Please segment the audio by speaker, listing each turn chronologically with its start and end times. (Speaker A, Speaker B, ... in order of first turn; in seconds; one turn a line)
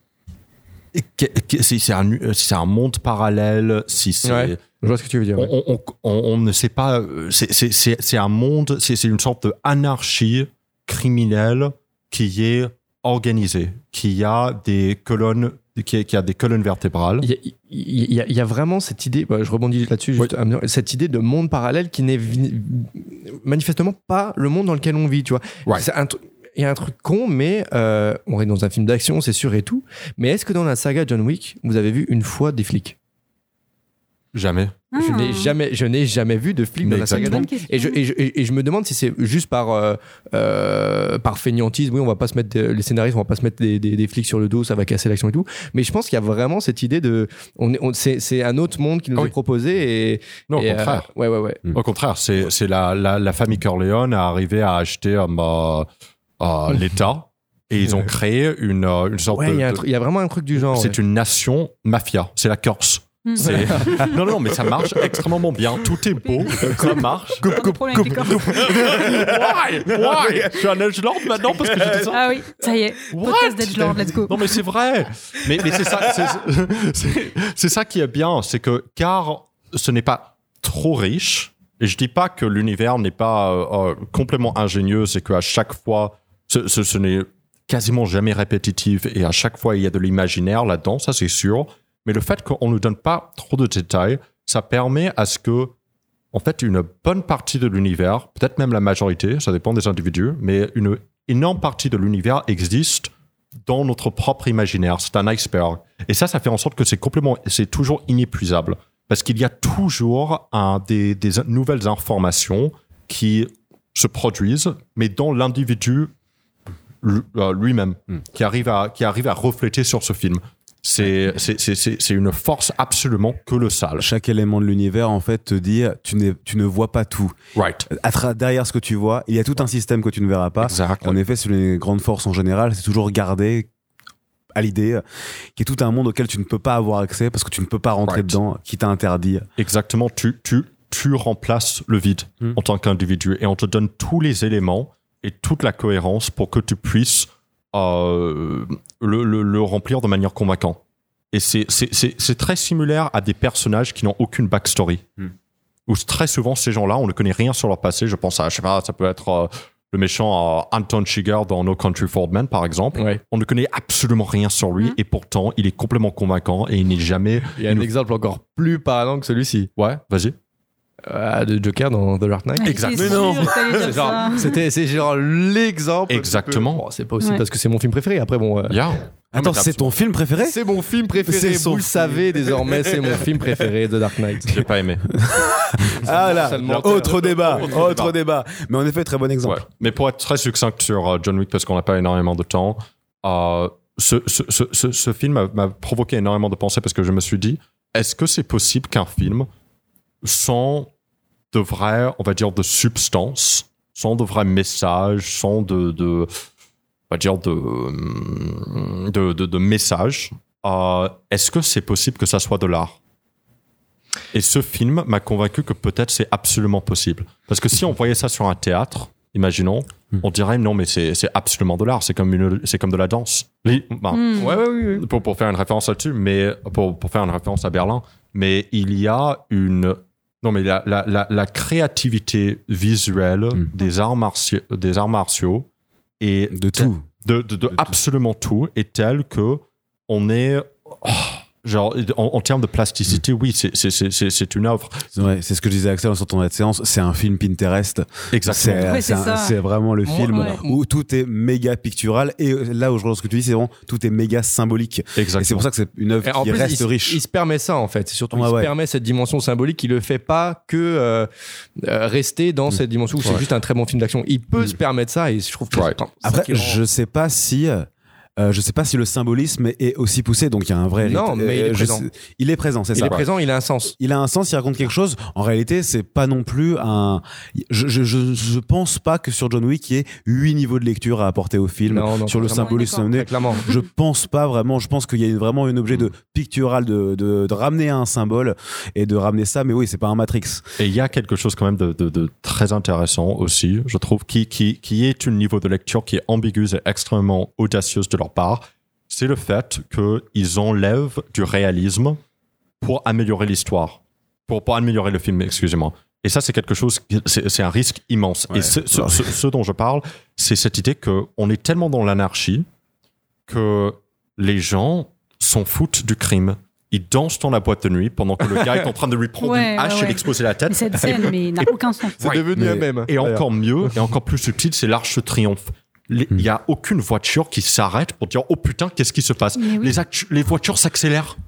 Speaker A: 0.9-4.6
Speaker B: 4.2-5.5
Speaker A: 5.4-17.3
Speaker B: 17.2-33.0
Speaker A: 34.3-34.8
Speaker C: 34.9-35.5
Speaker B: 35.0-51.6
Speaker A: 36.8-37.5
Speaker C: 37.2-38.0
Speaker A: 50.5-51.1
Speaker A: 51.7-55.9
Speaker A: 56.4-59.8
Speaker B: 59.3-61.0
Speaker A: 60.6-67.5
Speaker C: 63.2-64.2
Speaker B: 63.4-64.1
Speaker C: 66.2-68.9
Speaker D: 66.6-70.7
Speaker A: 68.0-72.3
Speaker D: 71.3-72.2
Speaker C: 72.1-74.3
Speaker A: 73.1-95.7
Speaker D: 75.5-76.3
Speaker A: 96.3-103.1
Speaker A: 103.7-116.1
Speaker A: 117.0-124.1
Speaker D: 124.0-127.3
Speaker A: 127.6-127.9
Speaker D: 127.9-133.7
Speaker A: 130.6-131.2
Speaker D: 134.6-135.0
Speaker D: 135.6-139.5
Speaker A: 138.1-138.4
Speaker A: 139.6-150.8
Speaker A: 151.3-155.1
Speaker A: 155.9-167.9
Speaker B: 162.9-163.2
Speaker B: 167.6-169.7
Speaker A: 169.8-170.4
Speaker B: 171.1-172.8
Speaker C: 172.6-174.5
Speaker A: 172.6-173.5
Speaker D: 172.9-174.2
Speaker B: 173.7-178.8
Speaker A: 176.1-176.8
Speaker A: 178.7-179.9
Speaker D: 179.3-180.6
Speaker B: 180.4-184.5
Speaker D: 181.2-182.2
Speaker A: 184.4-185.2
Speaker D: 185.1-189.6
Speaker B: 186.1-187.9
Speaker A: 186.3-188.1
Speaker A: 189.4-199.5
Speaker A: 200.2-200.9
Speaker A: 201.5-206.3
Speaker A: 207.1-213.0
Speaker A: 214.3-235.7
Speaker C: 224.1-224.5
Speaker B: 224.4-225.1
Speaker A: 236.2-245.1
Speaker D: 236.5-237.0
Speaker D: 245.1-257.2
Speaker A: 248.3-249.0
Speaker C: 248.8-249.6
Speaker B: 250.1-250.8
Speaker A: 255.2-255.7
Speaker B: 256.2-266.8
Speaker D: 258.3-258.7
Speaker D: 266.2-273.2
Speaker B: 271.0-272.1
Speaker B: 272.9-273.9
Speaker D: 274.0-290.6
Speaker B: 281.9-283.7
Speaker C: 282.5-283.1
Speaker A: 290.8-302.2
Speaker A: 302.8-312.7
Speaker D: 308.5-309.3
Speaker A: 313.5-321.7
Speaker C: 319.4-322.2
Speaker B: 321.6-323.1
Speaker A: 322.2-331.4
Speaker D: 322.5-323.4
Speaker C: 329.6-330.0